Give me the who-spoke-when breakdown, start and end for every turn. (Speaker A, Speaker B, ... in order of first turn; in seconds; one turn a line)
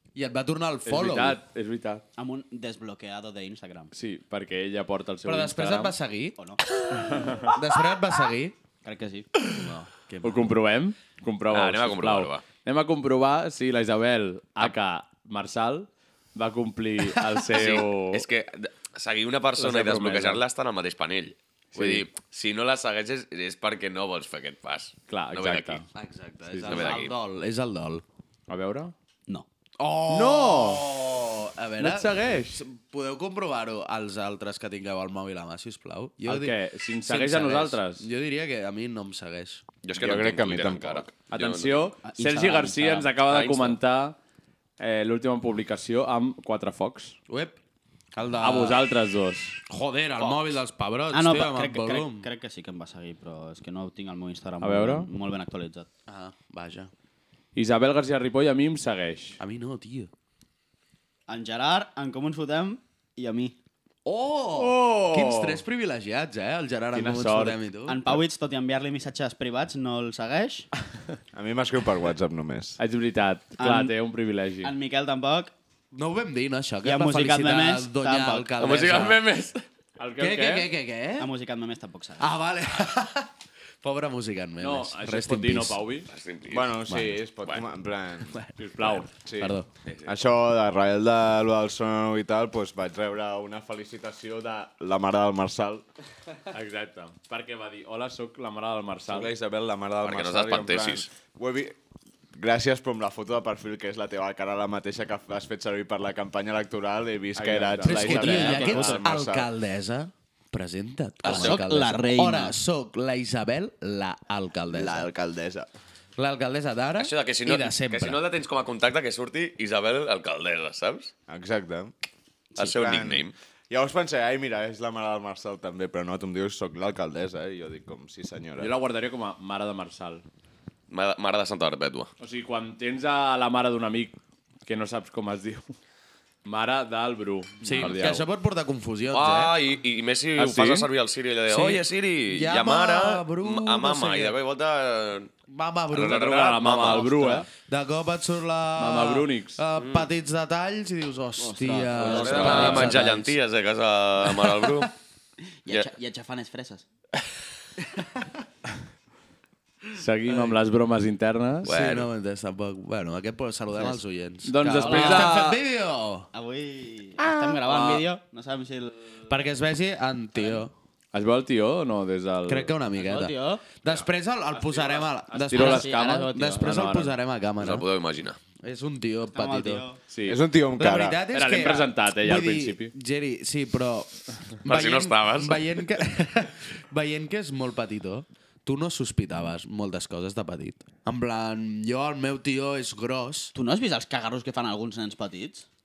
Speaker A: 0.1-1.4
Speaker B: 0.8-2.0
Speaker C: 2.1-3.9
Speaker B: 3.9-6.0
Speaker A: 5.2-6.3
Speaker C: 6.4-6.6
Speaker B: 6.9-7.5
Speaker A: 7.4-8.5
Speaker C: 8.8-9.9
Speaker A: 10.1-10.5
Speaker B: 10.2-18.2
Speaker D: 11.5-12.4
Speaker D: 17.5-25.8
Speaker B: 19.6-20.4
Speaker B: 21.7-22.1
Speaker B: 25.1-25.9
Speaker A: 25.9-28.0
Speaker B: 26.5-26.9
Speaker D: 26.7-27.1
Speaker B: 28.5-28.9
Speaker A: 29.8-39.6
Speaker B: 30.1-30.9
Speaker B: 31.8-32.6
Speaker B: 36.2-38.0
Speaker D: 39.8-41.9
Speaker E: 39.9-41.1
Speaker B: 41.3-44.2
Speaker C: 42.0-43.7
Speaker B: 44.8-47.2
Speaker A: 47.3-47.6
Speaker A: 48.1-48.8
Speaker B: 48.4-49.5
Speaker A: 49.7-52.3
Speaker C: 51.1-55.9
Speaker B: 54.6-55.1
Speaker A: 56.1-56.9
Speaker B: 57.5-59.4
Speaker A: 59.4-60.1
Speaker C: 61.3-63.5
Speaker A: 64.0-68.2
Speaker B: 64.5-65.6
Speaker B: 66.9-67.6
Speaker C: 67.9-70.7
Speaker E: 71.3-72.8
Speaker B: 72.8-74.7
Speaker C: 73.6-73.9
Speaker C: 74.6-75.5
Speaker A: 75.9-79.2
Speaker C: 76.8-78.5
Speaker D: 78.6-79.6
Speaker B: 80.0-80.7
Speaker A: 80.2-81.3
Speaker C: 81.2-82.3
Speaker A: 82.2-83.3
Speaker A: 83.8-85.8
Speaker B: 84.6-86.1
Speaker D: 86.1-86.7
Speaker E: 86.5-88.4
Speaker A: 86.9-87.2
Speaker A: 88.3-89.7
Speaker B: 88.5-89.1
Speaker E: 89.1-95.8
Speaker D: 89.8-90.1
Speaker B: 96.5-99.3
Speaker E: 99.1-101.8
Speaker D: 100.0-101.1
Speaker E: 102.3-109.5
Speaker B: 107.3-108.8
Speaker A: 107.8-115.1
Speaker C: 108.1-109.0
Speaker D: 111.2-111.6
Speaker C: 111.2-112.6
Speaker E: 114.7-115.7
Speaker A: 116.2-118.2
Speaker D: 117.0-121.1
Speaker E: 121.3-121.9
Speaker D: 122.6-123.3
Speaker E: 122.6-128.7
Speaker B: 128.6-130.2
Speaker D: 130.9-132.1
Speaker B: 132.2-135.7
Speaker B: 136.4-138.2
Speaker A: 137.6-139.5
Speaker D: 139.1-145.3
Speaker B: 140.4-140.9
Speaker A: 141.5-144.3
Speaker A: 145.5-147.0
Speaker D: 145.9-147.1
Speaker B: 146.0-147.4
Speaker C: 146.8-147.5
Speaker A: 147.6-153.3
Speaker B: 148.8-149.6
Speaker D: 149.8-150.1
Speaker C: 151.4-153.1
Speaker D: 151.9-154.9
Speaker A: 154.2-154.9
Speaker C: 155.6-156.8
Speaker A: 157.9-158.3
Speaker B: 159.9-161.7
Speaker A: 160.3-160.6
Speaker A: 161.6-166.3
Speaker D: 161.6-162.1
Speaker B: 164.4-165.6
Speaker C: 164.8-165.4
Speaker C: 166.3-169.4
Speaker A: 167.2-168.0
Speaker A: 169.3-170.7
Speaker B: 171.1-172.7
Speaker A: 172.4-177.8
Speaker C: 173.0-173.6
Speaker B: 174.5-177.1
Speaker C: 175.5-176.7
Speaker D: 177.6-178.4
Speaker A: 178.6-179.8
Speaker C: 179.3-180.0
Speaker B: 180.1-180.4
Speaker E: 180.2-181.2
Speaker A: 180.8-193.5
Speaker B: 181.3-182.9
Speaker D: 184.7-185.8
Speaker C: 193.5-195.7